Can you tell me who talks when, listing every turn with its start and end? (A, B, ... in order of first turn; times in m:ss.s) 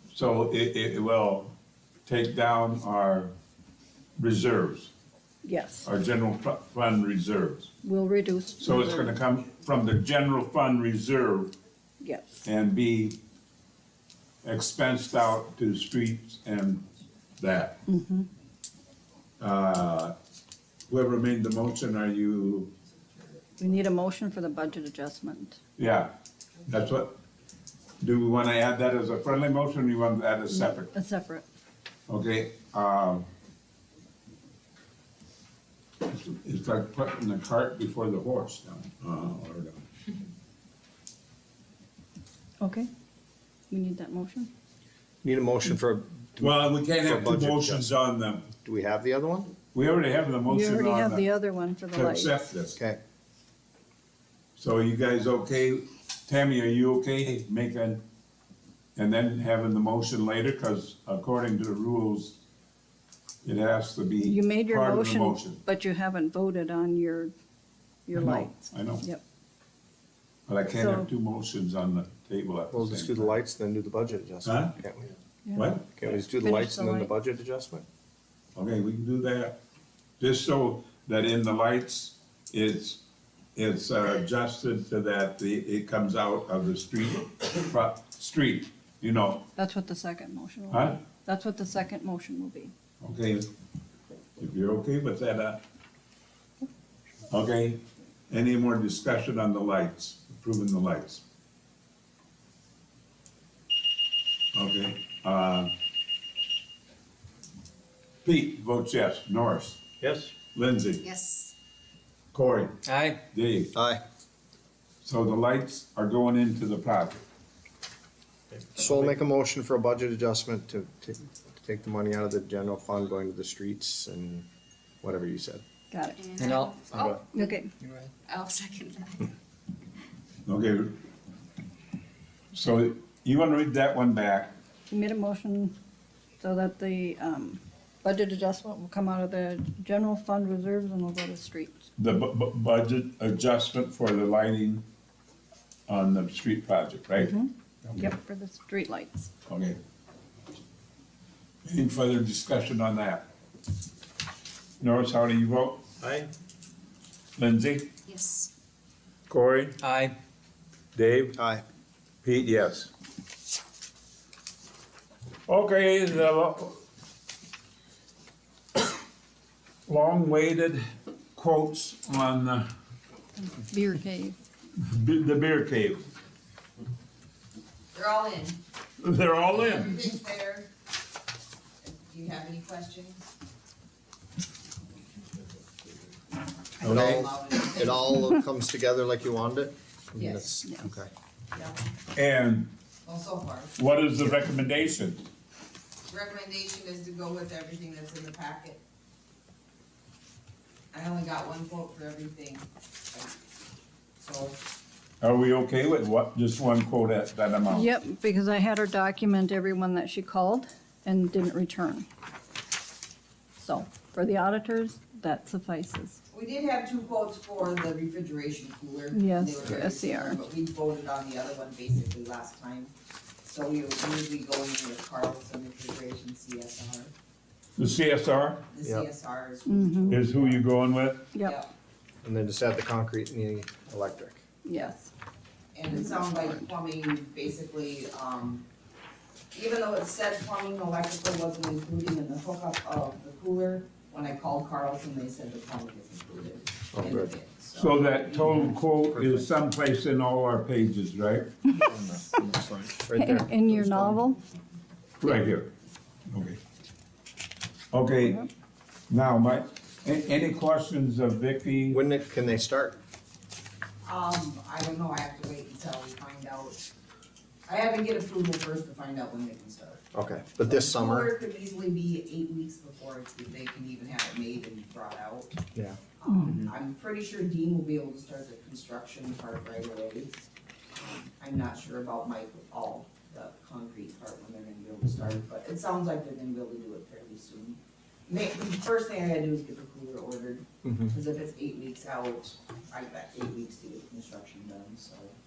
0:00.1-0:01.5 A
0:02.0-0:03.3 A
0:04.2-0:04.9 A
0:05.4-0:05.9 B
0:05.8-0:07.7 A
0:07.8-0:09.2 B
0:08.6-0:11.5 A
0:12.0-0:12.4 B
0:12.4-0:13.2 A
0:14.4-0:16.8 A
0:17.4-0:17.8 A
0:17.9-0:18.3 B
0:19.4-0:20.2 A
0:20.9-0:22.7 A
0:23.6-0:25.6 B
0:25.8-0:26.1 A
0:26.7-0:27.1 A
0:28.0-0:30.9 A
0:30.5-0:31.4 B
0:32.1-0:33.3 A
0:36.0-0:39.8 A
0:42.6-0:42.9 B
0:43.7-0:44.5 B
0:45.2-0:47.9 C
0:46.4-0:48.5 A
0:48.5-0:49.5 C
0:49.7-0:51.2 A
0:50.4-0:52.3 B
0:51.9-0:52.8 A
0:52.7-0:53.0 C
0:54.6-0:58.0 A
0:59.0-1:02.4 A
1:03.4-1:05.6 A
1:04.2-1:07.3 B
1:08.1-1:09.2 B
1:08.1-1:09.0 A
1:10.5-1:13.3 A
1:10.7-1:11.1 B
1:12.7-1:15.1 C
1:14.4-1:14.7 A
1:15.4-1:15.8 B
1:15.5-1:15.9 A
1:15.9-1:17.8 C
1:16.3-1:17.1 B
1:18.5-1:19.6 A
1:20.2-1:23.0 A
1:23.6-1:29.5 A
1:29.6-1:32.7 B
1:30.7-1:31.0 A
1:33.0-1:33.5 A
1:34.4-1:35.6 A
1:37.3-1:41.2 A
1:44.5-1:45.7 A
1:48.2-1:49.8 A
1:50.0-1:50.3 D
1:50.5-1:51.0 A
1:51.0-1:51.5 E
1:52.3-1:53.7 A
1:52.8-1:53.2 D
1:53.7-1:54.0 C
1:55.0-1:57.2 A
1:58.7-2:04.4 C
2:05.0-2:05.6 C
2:05.9-2:06.3 B
2:06.2-2:07.6 E
2:06.4-2:07.2 D
2:07.3-2:07.7 B
2:07.8-2:08.1 D
2:08.2-2:09.3 E
2:10.4-2:11.0 A
2:12.5-2:14.5 A
2:14.9-2:15.7 B
2:16.4-2:21.9 B
2:22.0-2:24.8 A
2:25.9-2:27.3 A
2:27.2-2:29.3 B
2:27.8-2:28.1 A
2:29.4-2:29.8 A
2:31.6-2:33.3 A
2:34.8-2:35.8 A
2:36.0-2:36.3 D
2:37.4-2:37.9 A
2:38.1-2:38.5 E
2:39.3-2:39.8 A
2:39.8-2:40.2 D
2:40.9-2:41.4 A
2:41.4-2:41.6 C
2:42.2-2:42.9 A
2:45.5-2:46.8 A
2:49.9-2:50.8 A
2:51.3-2:52.7 A
2:53.4-2:54.4 B
2:54.8-2:56.1 A
2:57.9-2:58.6 F
2:59.0-3:00.1 A
2:59.5-3:00.7 F
3:01.8-3:03.2 F
3:06.8-3:07.2 A
3:06.8-3:08.3 F
3:06.8-3:11.1 C
3:10.2-3:10.5 F
3:10.6-3:10.9 B
3:11.5-3:11.8 F
3:12.1-3:12.7 A
3:13.0-3:13.7 F
3:13.8-3:15.2 A
3:16.1-3:18.8 F
3:20.9-3:23.3 F
3:24.2-3:24.6 F
3:25.2-3:27.9 A
3:27.7-3:32.1 B
3:33.6-3:36.2 B
3:36.3-3:42.9 F
3:39.1-3:40.4 B
3:43.4-3:47.1 F
3:47.8-3:48.6 A
3:48.7-3:50.7 F
3:48.8-3:49.1 C
3:49.7-3:50.2 B
3:50.1-3:51.4 A
3:51.4-3:51.7 F
3:52.2-3:54.4 C
3:54.6-3:55.1 B
3:55.7-3:58.6 F
3:59.5-4:08.6 F
4:06.9-4:07.3 C
4:07.7-4:11.6 A
4:11.7-4:14.3 C
4:13.1-4:14.4 B
4:15.2-4:15.7 A
4:16.3-4:16.6 A
4:17.9-4:18.5 A
4:19.1-4:22.0 A
4:21.9-4:23.0 C
4:24.0-4:26.8 F
4:27.6-4:30.0 F
4:30.1-4:31.3 C
4:30.6-4:35.6 F
4:36.2-4:40.3 F
4:36.2-4:36.6 B
4:41.0-4:55.3 F
4:50.8-4:51.1 C